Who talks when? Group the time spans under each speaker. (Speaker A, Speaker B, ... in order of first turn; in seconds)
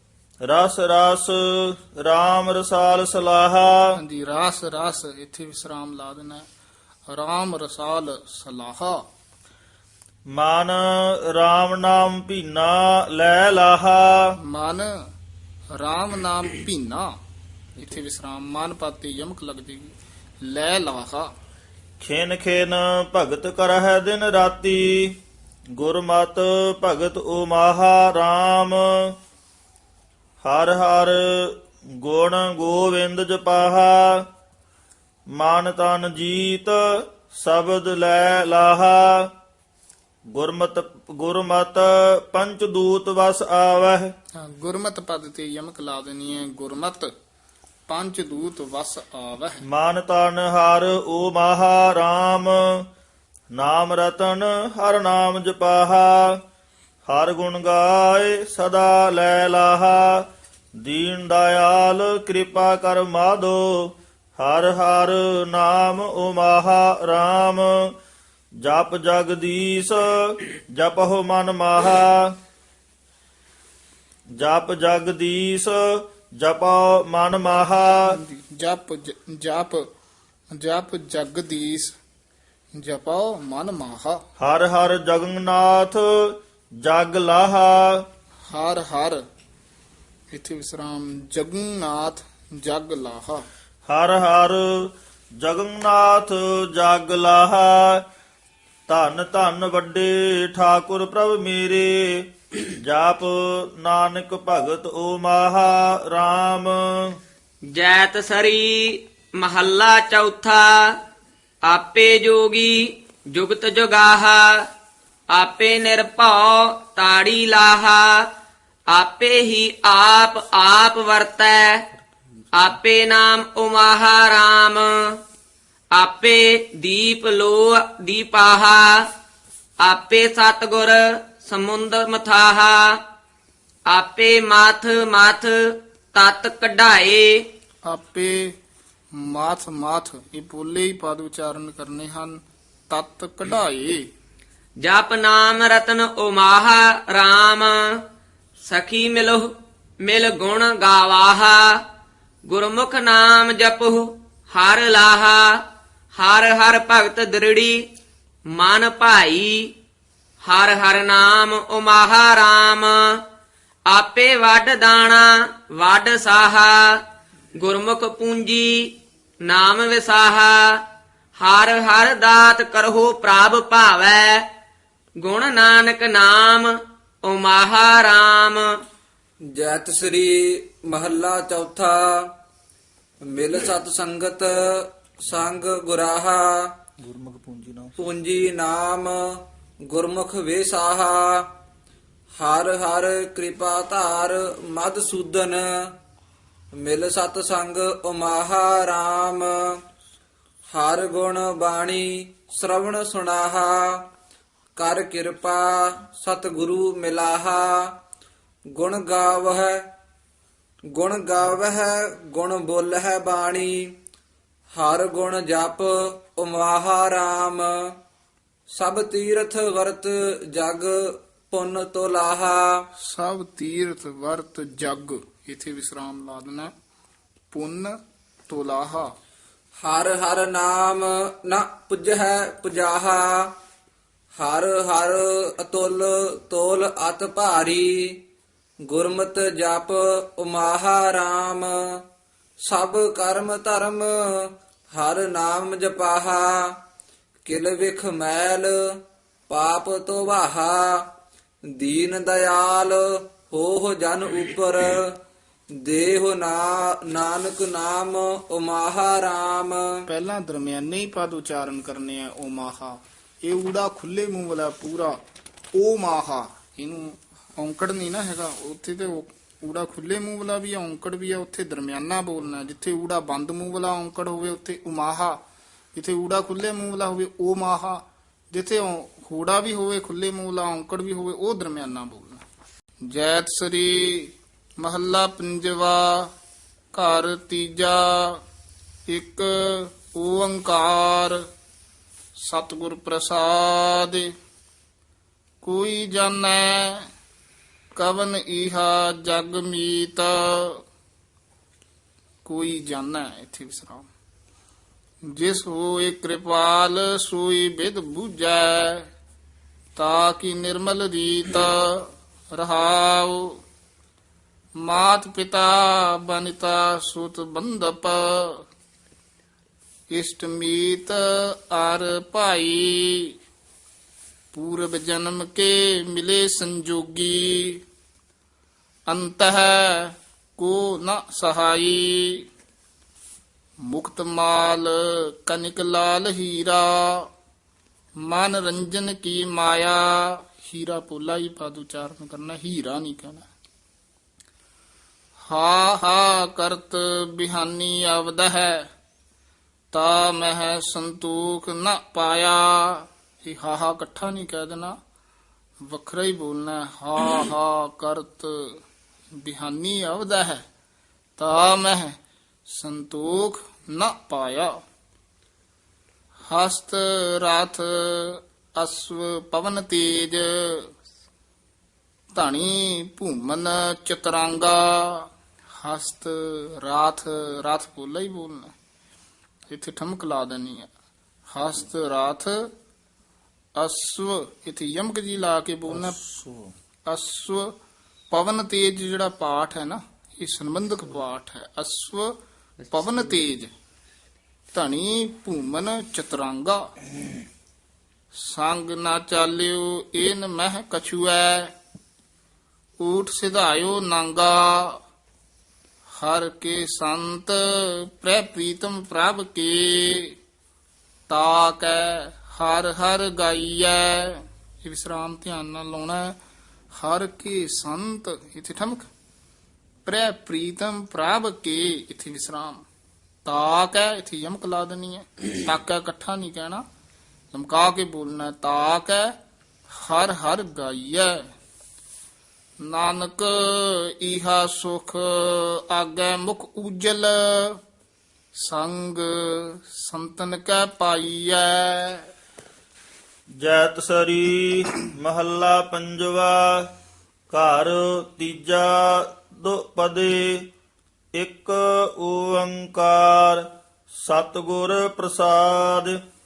Speaker A: 0.4-4.0, 10.3-14.3, 22.0-25.2, 25.7-29.1, 30.4-34.3, 35.3-39.3, 40.3-44.1, 49.6-52.9, 53.5-56.4, 57.0-60.3, 60.8-67.9, 68.6-72.3, 74.3-78.2, 84.4-88.1, 93.8-98.0, 98.9-107.2, 122.0-122.8, 187.0-188.0, 385.9-386.7, 443.5-446.9, 447.5-450.7, 451.3-456.2
Speaker B: 3.9-6.5, 7.1-9.0, 14.4-15.1, 15.7-17.1, 17.8-21.3, 44.4-47.1, 47.9-49.6, 78.1-79.8, 80.5-82.0, 82.8-84.2, 88.5-89.2, 90.3-93.5, 137.8-138.6, 139.1-144.1, 223.0-226.7, 227.5-227.9, 228.5-229.1, 260.1-265.2, 265.7-275.4, 275.9-282.4, 283.0-286.3, 286.9-288.4, 289.1-291.4, 292.4-294.3, 295.6-297.1, 297.9-300.8, 302.4-304.1, 305.3-309.1, 309.9-313.6, 314.8-318.6, 320.1-323.3, 324.5-327.8, 329.1-332.4, 333.8-337.3, 338.2-343.5, 345.4-348.9, 349.9-355.0, 355.8-358.8, 359.4-360.6, 361.4-364.8, 366.4-370.9, 372.3-378.7, 379.7-380.9, 381.5-382.7, 383.8-386.2, 387.1-387.7, 388.3-392.3, 392.9-393.7, 394.7-396.9, 398.3-401.7, 403.0-405.0, 406.1-410.3, 411.3-416.4, 416.9-419.1, 420.0-422.8, 423.4-426.8, 427.5-429.3, 429.9-431.5, 432.8-437.8, 438.6-442.3
Speaker C: 107.7-111.0, 111.6-114.7, 115.3-118.3, 118.9-121.9, 122.5-125.2, 125.9-129.1, 129.8-133.0, 133.9-137.4, 144.8-148.0, 148.6-151.8, 152.4-155.6, 156.2-157.8, 158.5-159.7, 160.4-163.2, 163.9-167.0, 167.6-170.8, 171.4-174.5, 175.2-178.8
Speaker D: 179.4-182.4, 183.3-186.7, 188.0-191.5, 192.4-196.0, 196.7-199.8, 200.7-204.1, 204.8-208.0, 208.7-209.9, 210.9-213.9, 214.7-218.0, 218.7-222.9, 229.8-233.5, 234.3-238.2, 238.8-242.0, 242.6-246.8, 247.4-251.1, 251.7-255.2, 255.8-260.0